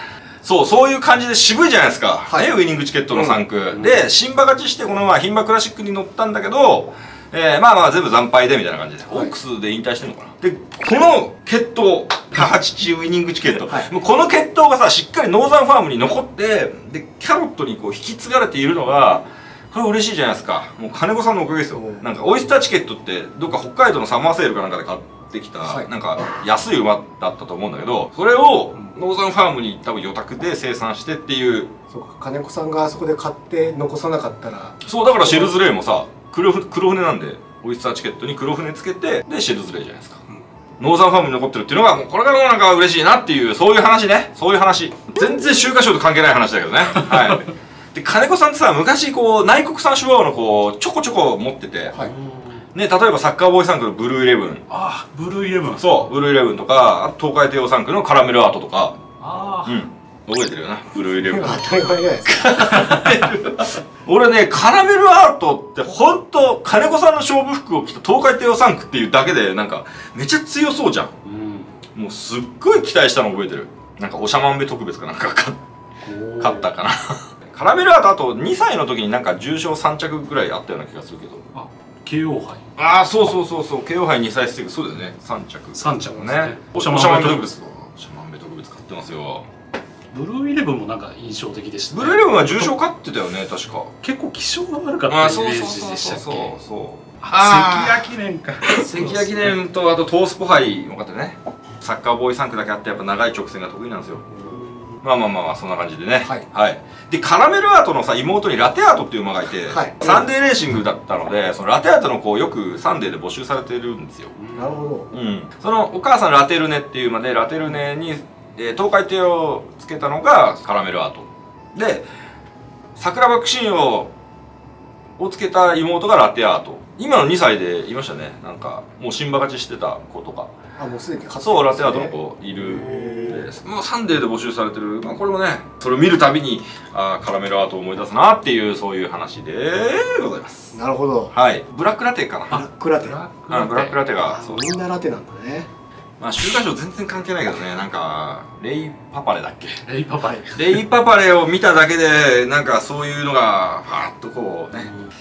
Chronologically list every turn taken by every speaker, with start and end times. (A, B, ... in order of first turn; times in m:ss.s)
0:00.4-0:31.7 A
0:03.1-0:03.4 B
0:03.7-0:04.1 C
0:21.8-0:22.0 B
0:31.9-0:35.6 B
0:34.8-0:40.2 A
0:40.8-0:52.0 A
0:52.0-0:52.6 C
0:52.7-0:54.7 A
0:54.7-0:55.8 C
0:55.8-0:59.0 A
0:59.2-0:59.8 C
0:59.6-1:01.7 A
1:01.1-1:02.9 B
1:02.2-1:11.1 A
1:02.9-1:03.2 C
1:11.2-1:11.8 C
1:11.9-1:15.6 A
1:16.0-1:16.7 C
1:16.4-1:21.4 A
1:21.5-1:22.6 C
1:22.8-1:29.4 A
1:25.7-1:27.5 C
1:30.1-1:32.8 C
1:31.9-1:33.9 A
1:34.0-1:36.6 C
1:35.1-1:38.1 A
1:37.2-1:39.6 C
1:38.7-1:44.3 A
1:44.3-1:44.7 B
1:44.4-1:44.7 C
1:45.0-1:54.3 A
1:49.7-1:50.3 B
1:54.4-1:54.9 C
1:54.5-1:55.1 B
1:55.1-2:02.1 A
2:03.0-2:04.1 A
2:05.2-2:10.5 A
2:10.8-2:13.5 B
2:11.4-2:20.8 A
2:13.0-2:13.4 C
2:20.7-2:21.3 B
2:21.3-2:22.6 A
2:22.5-2:23.2 B
2:22.6-2:24.0 C
2:23.5-2:24.8 A
2:24.2-2:25.7 B
2:26.2-2:29.8 A
2:29.8-2:30.8 C
2:30.5-2:34.9 A
2:34.8-2:35.1 C